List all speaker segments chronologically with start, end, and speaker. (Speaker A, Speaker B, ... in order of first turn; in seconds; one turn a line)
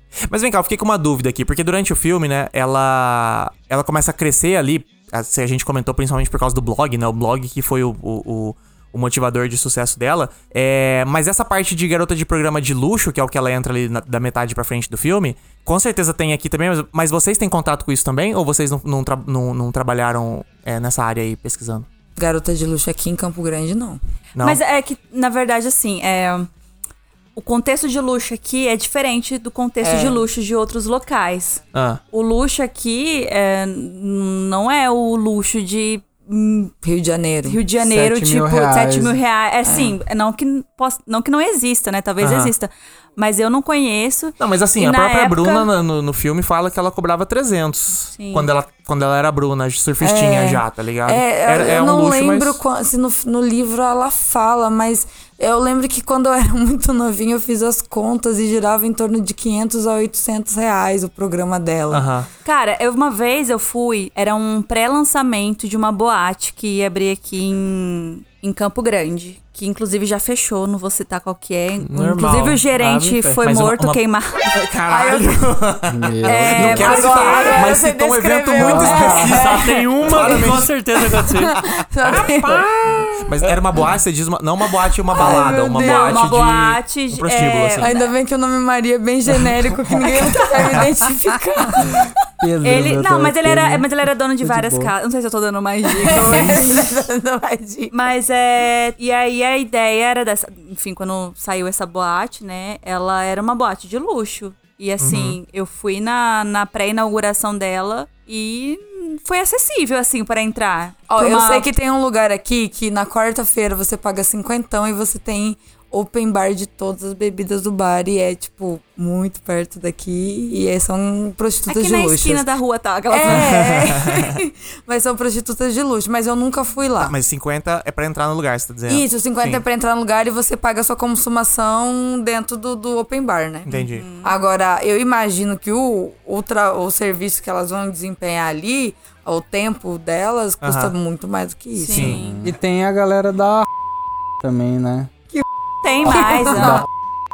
Speaker A: 0.3-21.9
Speaker B: 22.2-24.0
Speaker A: 24.4-24.6
Speaker C: 24.4-26.5
Speaker C: 27.4-31.6
Speaker B: 29.8-30.3
Speaker A: 31.7-32.0
Speaker C: 32.1-36.7
Speaker B: 36.8-37.6
Speaker C: 37.5-45.7
Speaker D: 37.8-39.2
Speaker B: 39.6-39.9
Speaker A: 42.2-42.5
Speaker A: 44.4-52.6
Speaker C: 48.1-48.5
Speaker B: 50.0-62.1
Speaker A: 61.9-62.3
Speaker C: 62.5-75.5
Speaker E: 71.8-73.4
Speaker A: 73.4-80.7
Speaker D: 75.9-77.1
Speaker C: 76.2-77.7
Speaker B: 76.6-80.6
Speaker D: 78.6-79.3
Speaker E: 79.2-81.5
Speaker B: 81.1-83.1
Speaker A: 82.0-87.9
Speaker B: 85.1-86.3
Speaker C: 85.2-88.0
Speaker B: 87.8-92.0
Speaker D: 92.4-94.9
Speaker C: 92.6-96.9
Speaker B: 96.0-97.9
Speaker D: 96.2-96.5
Speaker C: 97.9-111.7
Speaker A: 105.0-105.4
Speaker B: 111.1-122.5
Speaker C: 121.7-124.0
Speaker B: 123.1-127.1
Speaker A: 123.3-124.3
Speaker A: 127.0-129.6
Speaker B: 128.9-133.7
Speaker A: 133.7-134.1
Speaker C: 133.7-134.3
Speaker B: 134.2-142.2
Speaker A: 140.6-140.9
Speaker C: 141.8-142.5
Speaker A: 141.9-142.2
Speaker D: 142.3-143.7
Speaker D: 144.4-145.1
Speaker C: 145.8-146.8
Speaker B: 146.0-146.8
Speaker D: 146.1-146.8